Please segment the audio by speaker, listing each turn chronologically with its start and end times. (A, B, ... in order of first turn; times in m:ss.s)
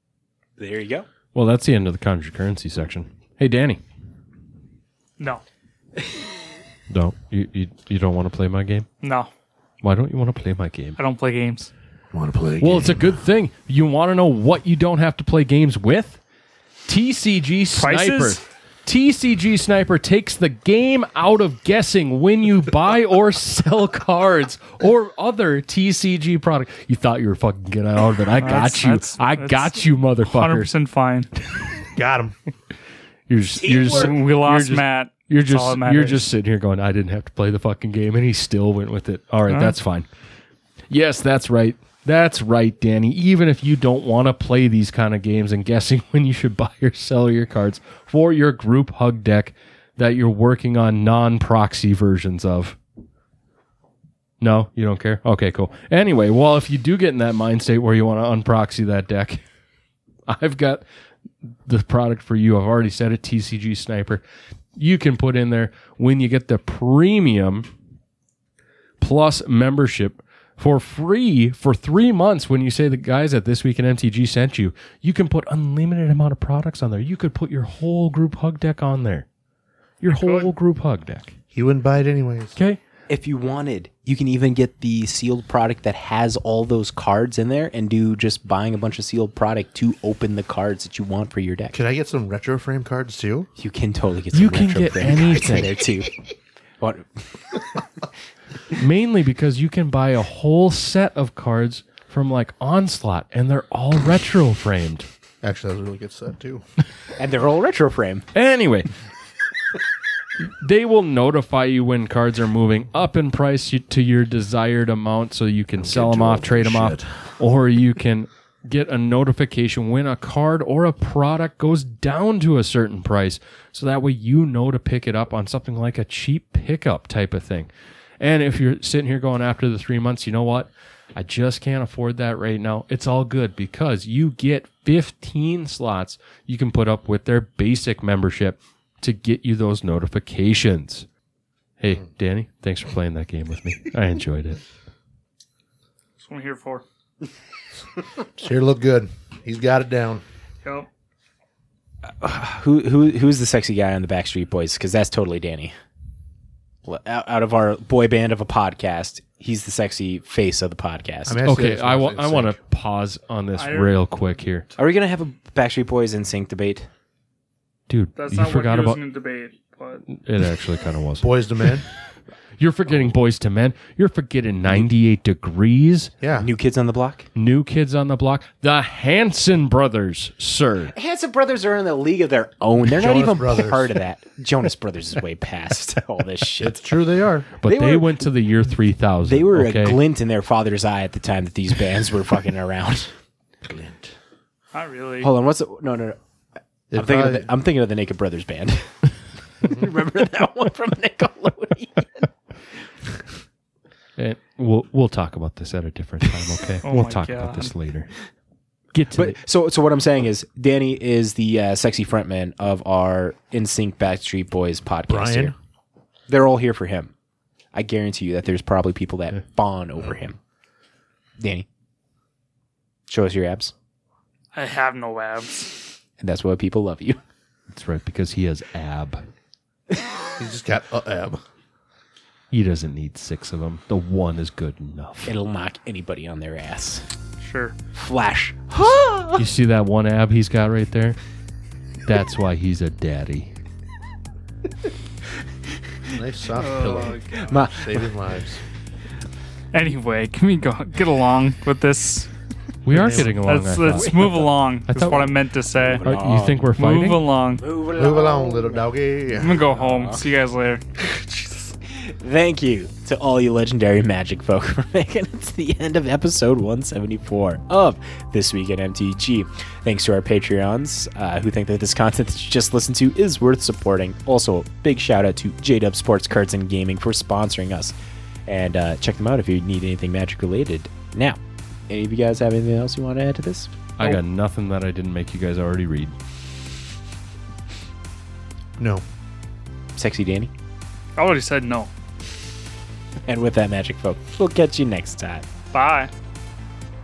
0:00.6-0:01.1 A
0:01.3-0:03.8 B
0:06.9-0:08.9 B
0:09.0-0:09.3 C
0:09.8-0:11.0 B
0:11.0-0:11.7 C
0:12.1-0:13.1 D
0:12.6-0:16.2 B
0:16.9-0:30.7 B
0:17.7-0:18.4 C
0:28.4-0:31.3 C
0:32.0-0:32.4 D
0:33.3-0:40.1 B
0:33.6-0:34.2 A
0:33.7-0:36.3 C
0:39.5-0:39.8 C
0:40.9-0:52.8 B
0:54.4-0:59.4 B
1:00.3-1:00.8 B
1:01.7-1:04.2 B
1:04.8-1:07.7 B
1:09.0-1:19.3 B
1:20.0-1:21.3 B
1:20.1-1:20.5 C
1:21.5-1:22.6 D
1:23.1-1:31.8 A
1:31.7-1:33.5 D
1:33.6-1:36.2 A
1:34.3-1:35.8 B
1:36.8-1:37.8 A
1:38.7-1:45.1 B
1:45.4-1:46.6 D
1:47.2-1:48.2 A
1:48.3-1:48.9 B
1:50.6-2:21.1 B
1:55.8-1:57.1 D
2:21.8-2:24.6 B
2:26.2-2:26.8 C
2:28.4-2:30.2 D
2:32.2-2:35.8 A
2:36.9-2:41.4 A
2:41.3-2:42.6 D
2:41.4-2:44.7 B
2:43.6-2:44.0 C
2:44.8-2:46.9 A
2:47.9-2:49.0 B
2:48.2-2:50.0 C
2:50.1-2:51.3 B
2:51.2-2:51.8 D
2:52.6-2:56.1 B
2:56.2-2:56.5 D
2:56.3-2:57.3 A
2:57.4-3:00.9 B
3:00.9-3:06.8 A
3:02.9-3:04.0 D
3:06.6-3:07.5 D
3:07.6-3:10.0 B
3:07.6-3:08.2 A
3:09.3-3:13.1 A
3:13.6-3:14.1 D
3:14.7-3:15.3 C
3:15.2-3:16.2 A
3:16.9-3:17.5 D
3:16.9-3:19.0 A
3:19.6-3:22.3 A
3:24.2-3:28.1 B
3:26.8-3:27.7 C
3:28.9-3:29.4 B
3:29.1-3:35.5 A
3:35.1-3:35.5 D
3:36.3-3:37.1 A
3:37.7-3:40.4 A
3:41.4-3:41.7 A
3:43.1-3:43.7 A
3:44.5-3:45.8 C
3:46.2-3:47.2 A
3:47.7-3:49.2 B
3:50.4-3:51.4 D
3:52.5-3:55.3 B
3:55.3-3:57.1 A
3:57.4-3:57.8 C
3:57.9-3:59.4 A
3:59.4-4:01.2 B
4:02.1-4:03.5 B
4:06.1-4:08.6 D
4:06.6-4:07.4 C
4:07.3-4:08.1 A
4:09.7-4:12.3 C
4:12.8-4:15.4 B
4:12.9-4:13.3 A
4:13.0-4:16.1 C
4:13.9-4:14.3 A
4:15.8-4:16.6 A
4:16.0-4:17.2 B
4:16.8-4:17.6 C
4:17.6-4:18.9 A
4:17.9-4:19.6 D
4:19.4-4:20.8 C
4:19.6-4:20.2 A
4:21.0-4:38.0 A
4:38.5-4:43.7 A
4:44.0-4:46.1 B
4:48.8-4:49.0 D
4:50.0-4:50.5 A
4:51.2-4:51.9 C
4:53.3-4:55.5 A
4:55.7-4:56.1 C